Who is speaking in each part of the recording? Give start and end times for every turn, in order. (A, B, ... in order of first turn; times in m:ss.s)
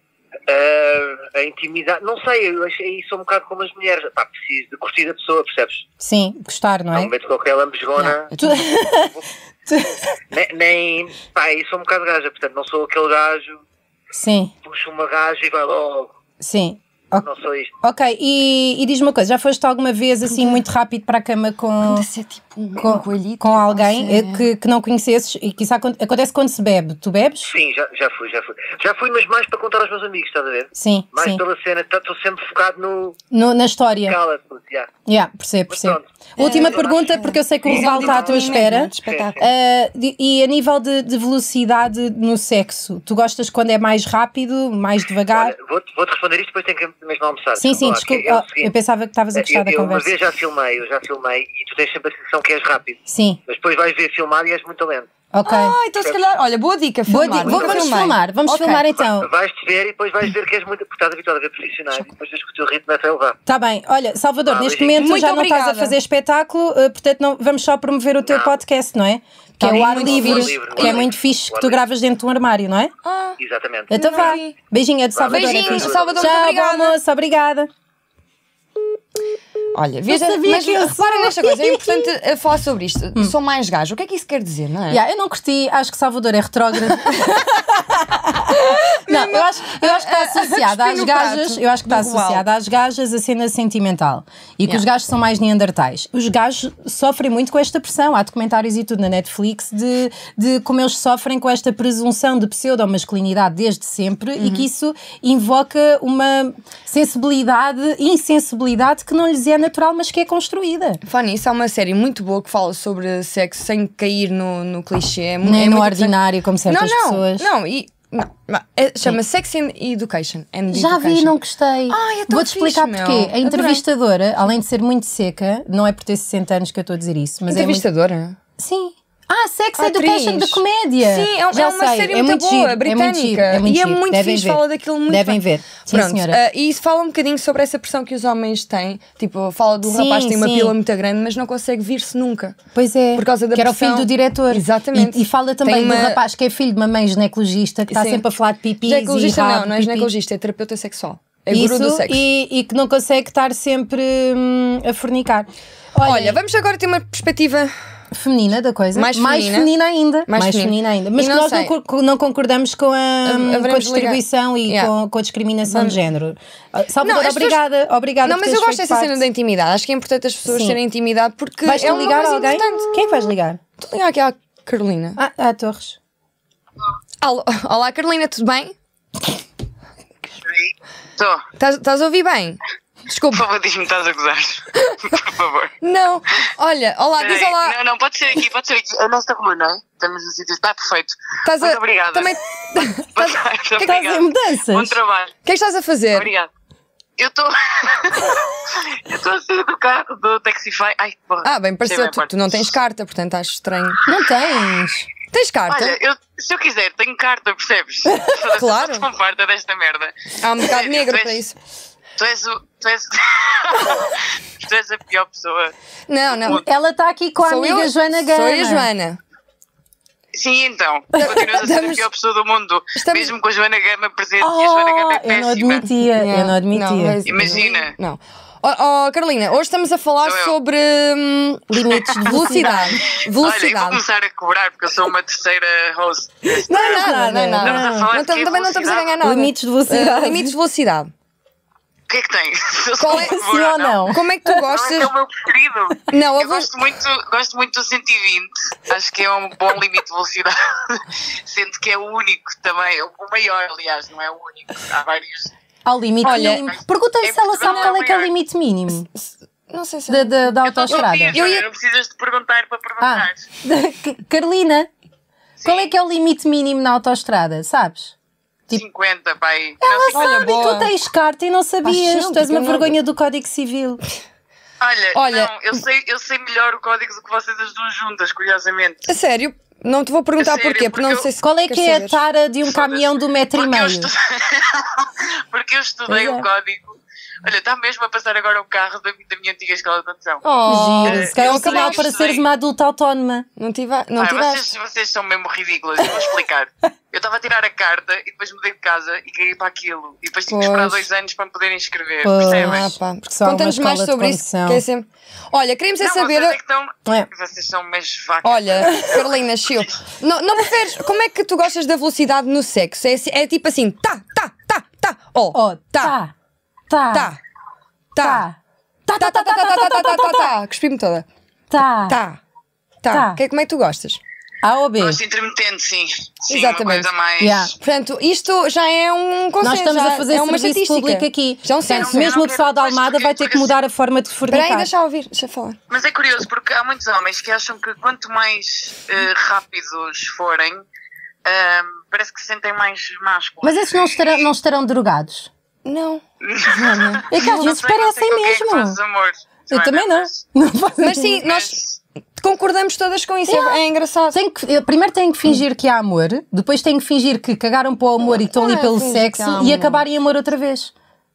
0:00.5-0:05.9 A
0:06.0-0:07.1 B
0:06.9-0:08.3 A
0:08.0-0:08.7 C
0:08.4-0:10.2 B
0:10.3-0:13.6 A
0:14.1-0:14.5 B
0:14.6-0:16.1 A
0:16.4-0:17.3 B
0:17.1-0:17.7 A
0:17.8-0:22.1 B
0:21.8-0:24.5 C
0:22.8-0:27.5 B
0:27.5-0:33.2 A
0:30.8-0:31.4 B
0:33.3-0:34.2 B
0:34.1-0:34.9 A
0:35.1-0:45.6 B
0:35.7-0:39.4 A
0:36.4-0:39.5 C
0:45.3-0:48.7 A
0:47.6-0:50.1 B
0:49.4-0:55.1 A
0:53.1-0:53.4 B
0:55.3-0:55.8 B
0:55.4-0:58.8 C
0:57.1-0:59.3 B
0:57.4-0:58.0 A
0:59.0-1:03.4 A
1:03.5-1:12.9 B
1:04.5-1:05.0 A
1:05.0-1:06.0 C
1:08.3-1:08.6 A
1:09.6-1:11.1 C
1:09.6-1:11.8 A
1:13.0-1:13.4 C
1:13.4-1:14.4 A
1:13.9-1:14.6 C
1:13.9-1:17.7 B
1:15.1-1:16.3 A
1:15.3-1:17.0 C
1:19.7-1:25.0 C
1:20.1-1:22.1 B
1:24.9-1:51.0 B
1:28.5-1:32.5 C
1:44.4-1:44.7 C
1:51.0-1:56.2 C
1:55.4-1:57.5 B
1:56.7-2:01.4 C
2:00.7-2:07.8 B
2:01.9-2:03.8 C
2:07.5-2:08.4 C
2:08.6-2:16.4 B
2:09.8-2:22.6 C
2:19.8-2:20.8 B
2:22.8-2:30.1 B
2:23.1-2:26.2 C
2:27.9-2:28.2 C
2:28.8-2:32.3 C
2:31.5-2:36.4 B
2:36.0-2:37.7 C
2:38.1-2:49.2 B
2:38.9-2:39.7 C
2:40.3-2:41.7 C
2:43.2-2:44.9 C
2:45.7-2:46.0 C
2:47.0-2:47.6 C
2:48.2-2:53.3 C
2:50.5-2:50.8 B
2:51.6-2:53.6 B
2:53.8-2:55.2 C
2:55.2-2:56.0 B
2:57.2-2:58.8 C
3:00.5-3:01.4 D
3:01.6-3:03.4 C
3:03.3-3:05.7 D
3:05.8-3:07.8 C
3:07.2-3:15.3 D
3:11.4-3:13.4 C
3:13.8-3:15.0 B
3:15.4-3:16.3 C
3:16.1-3:16.5 D
3:17.2-3:22.7 D
3:21.4-3:24.0 C
3:24.1-3:25.1 B
3:25.3-3:26.0 C
3:25.7-3:31.4 D
3:28.1-3:28.3 B
3:28.5-3:29.1 C
3:30.4-3:31.6 C
3:32.2-3:35.7 D
3:36.1-3:36.6 C
3:36.5-3:38.9 B
3:37.4-3:39.2 C
3:40.3-3:45.9 D
3:41.2-3:42.1 C
3:43.0-3:43.3 C
3:44.4-3:47.6 B
3:46.1-3:54.0 C
3:47.3-3:47.9 D
3:50.2-3:50.5 D
3:51.7-3:53.0 B
3:52.0-3:59.2 D
3:56.5-3:58.1 B
3:56.7-4:01.1 C
3:59.2-4:00.6 B
4:02.1-4:15.5 D
4:03.0-4:03.4 C
4:03.1-4:04.5 B
4:04.1-4:05.1 C
4:06.1-4:06.7 C
4:15.8-4:19.1 B
4:16.2-4:16.7 C
4:16.3-4:18.3 D
4:19.2-4:21.7 C
4:20.1-4:21.4 B
4:20.7-4:23.4 D
4:23.0-4:24.9 B
4:25.6-4:25.9 D
4:25.6-4:28.2 B
4:28.7-4:30.6 D
4:29.8-4:34.0 B
4:30.1-4:30.9 C
4:31.8-4:33.0 C
4:34.8-4:39.1 D
4:35.2-4:35.5 C
4:39.1-4:42.2 C
4:40.4-4:41.3 D
4:41.4-4:44.1 B
4:42.7-4:50.4 D
4:46.1-4:46.5 B
4:50.4-4:52.0 C
4:50.7-4:53.5 B
4:51.0-4:52.4 D
4:53.6-4:54.7 C
4:54.2-5:03.0 D
5:00.5-5:01.1 C
5:02.2-5:04.8 B
5:02.4-5:06.6 C
5:06.0-5:09.3 D
5:08.4-5:16.2 C
5:15.5-5:16.3 B
5:16.9-5:17.3 B
5:17.1-5:17.4 C
5:18.1-5:18.5 C
5:18.2-5:20.5 B
5:19.2-5:21.3 C
5:21.7-5:22.2 B
5:22.1-5:22.4 C
5:23.0-5:24.2 C
5:23.1-5:23.4 B
5:24.6-5:25.2 B
5:25.0-5:27.6 D
5:26.5-5:27.1 C
5:27.4-5:27.8 B
5:27.8-5:32.4 C
5:29.6-5:34.9 B
5:31.9-5:33.8 D
5:34.5-5:35.8 C
5:35.9-5:40.8 D
5:41.4-5:44.3 D
5:43.6-5:45.5 B
5:45.8-5:47.7 C
5:46.4-5:50.4 D
5:47.3-5:49.0 B
5:49.7-5:51.4 B
5:51.0-5:51.8 C
5:51.4-5:51.8 D
5:52.4-5:54.4 C
5:53.5-5:53.8 B
5:54.3-6:00.9 B
5:58.2-6:00.0 C